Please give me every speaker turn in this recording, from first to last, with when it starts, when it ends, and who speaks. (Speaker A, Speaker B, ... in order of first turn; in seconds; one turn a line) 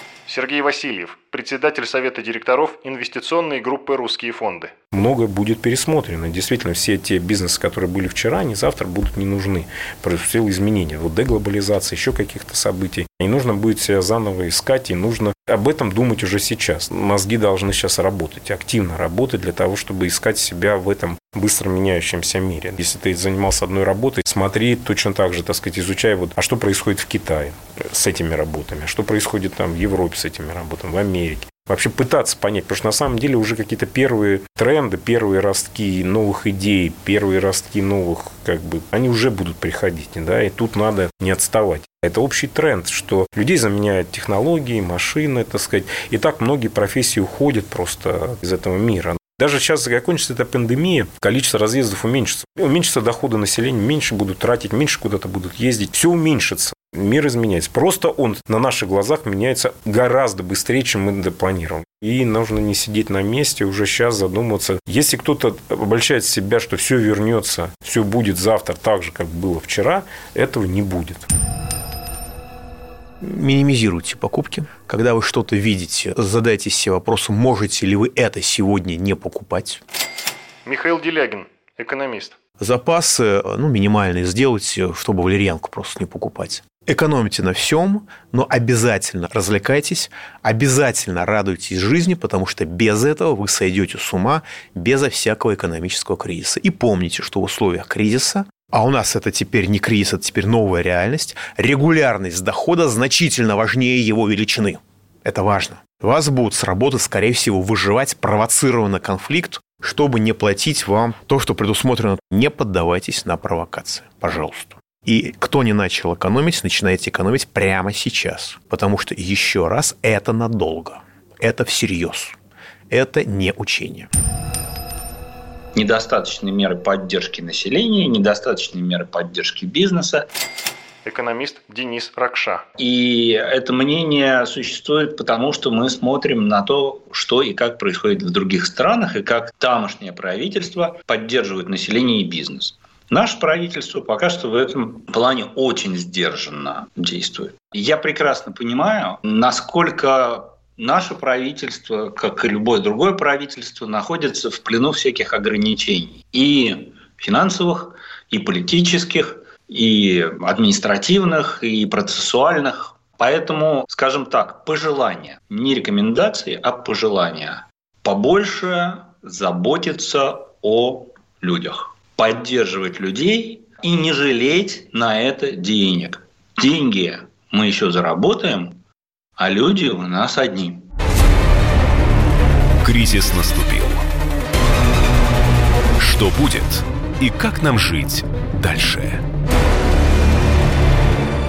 Speaker A: 0.3-4.7
Speaker B: 4.9-71.2
Speaker C: 73.2-79.8
Speaker A: 80.6-82.4
Speaker C: 82.6-122.3
Speaker C: 122.9-124.1
Speaker D: 125.7-130.3
Speaker A: 131.0-132.6
Speaker D: 132.8-178.8
Speaker D: 179.4-180.8
Speaker E: 182.8-184.1
Speaker E: 186.0-189.2